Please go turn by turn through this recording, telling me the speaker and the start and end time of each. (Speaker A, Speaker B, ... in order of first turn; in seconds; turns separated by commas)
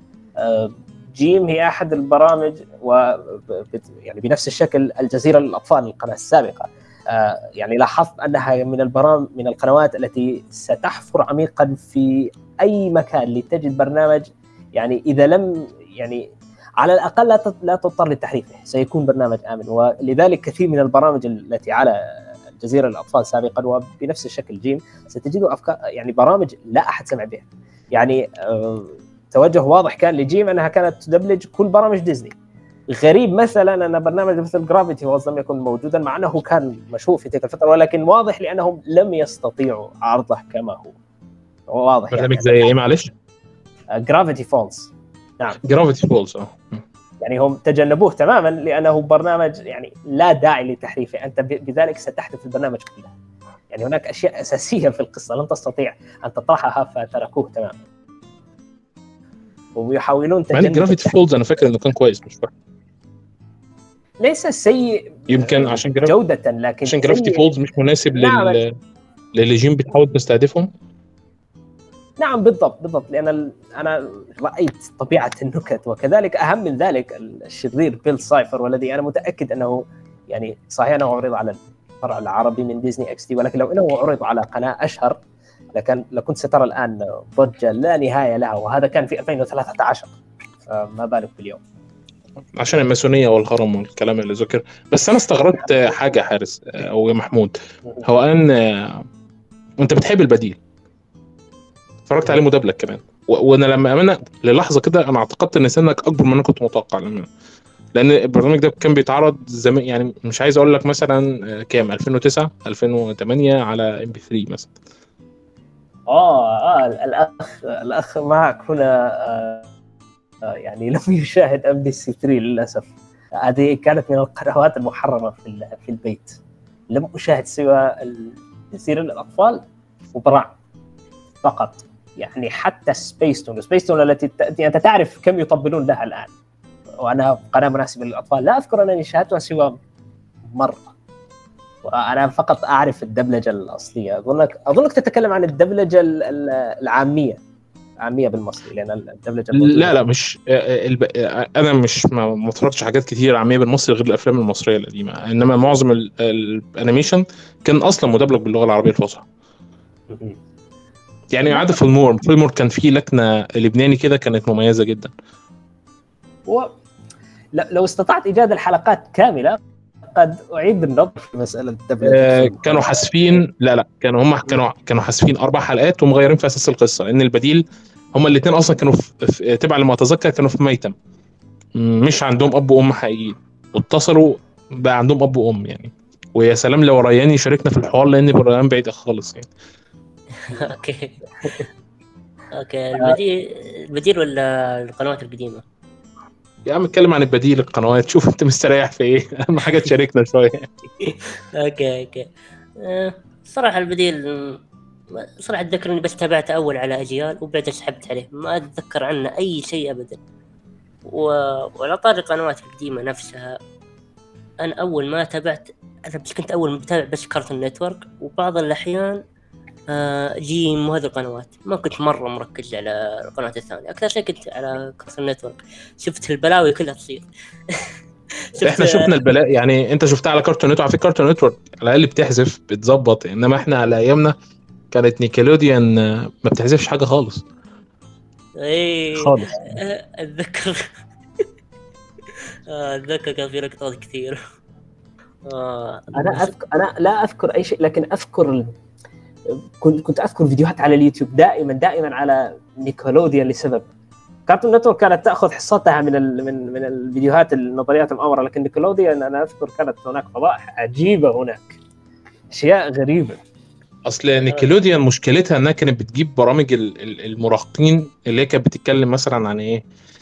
Speaker A: 0.4-16.3, Speaker A: 16.8-22.0, Speaker A: 22.6-32.4, Speaker A: 32.9-41.0, Speaker A: 41.7-42.7, Speaker B: 42.1-43.1, Speaker A: 43.9-45.6, Speaker B: 45.6-46.8, Speaker A: 47.2-53.1, Speaker A: 53.7-57.8, Speaker A: 59.8-61.1, Speaker B: 60.5-62.5, Speaker A: 64.2-67.5, Speaker B: 65.3-66.2, Speaker B: 66.9-68.7, Speaker A: 68.1-68.6, Speaker B: 69.4-70.7, Speaker A: 72.2-85.2, Speaker A: 85.7-90.1, Speaker A: 90.7-91.6, Speaker B: 92.5-99.1, Speaker A: 95.6-96.0, Speaker B: 99.8-100.6, Speaker B: 102.1-107.3, Speaker B: 108.0-114.7, Speaker A: 116.1-119.7, Speaker A: 120.5-126.4, Speaker A: 126.9-129.6, Speaker A: 130.1-130.5, Speaker A: 131.4-136.3, Speaker A: 137.0-139.8, Speaker A: 140.5-140.9, Speaker A: 141.8-147.4, Speaker A: 148.0-149.9, Speaker B: 149.5-159.3, Speaker A: 160.1-160.4, Speaker B: 161.3-165.1, Speaker A: 166.5-166.7, Speaker A: 167.5-173.0, Speaker B: 172.0-180.9, Speaker B: 181.8-189.5, Speaker C: 190.4-191.5, Speaker C: 192.6-195.6, Speaker B: 196.7-200.7, Speaker C: 201.0-204.6, Speaker C: 205.1-210.2, Speaker C: 211.1-213.6, Speaker C: 214.6-219.2, Speaker C: 219.9-228.0, Speaker C: 228.6-229.0, Speaker B: 228.6-234.3, Speaker B: 234.9-237.4, Speaker C: 238.6-240.9, Speaker A: 239.1-239.8, Speaker C: 242.3-244.4, Speaker C: 245.5-246.5, Speaker A: 246.2-248.7, Speaker A: 249.8-253.9, Speaker A: 254.5-261.8, Speaker A: 262.5-263.4, Speaker B: 264.1-269.8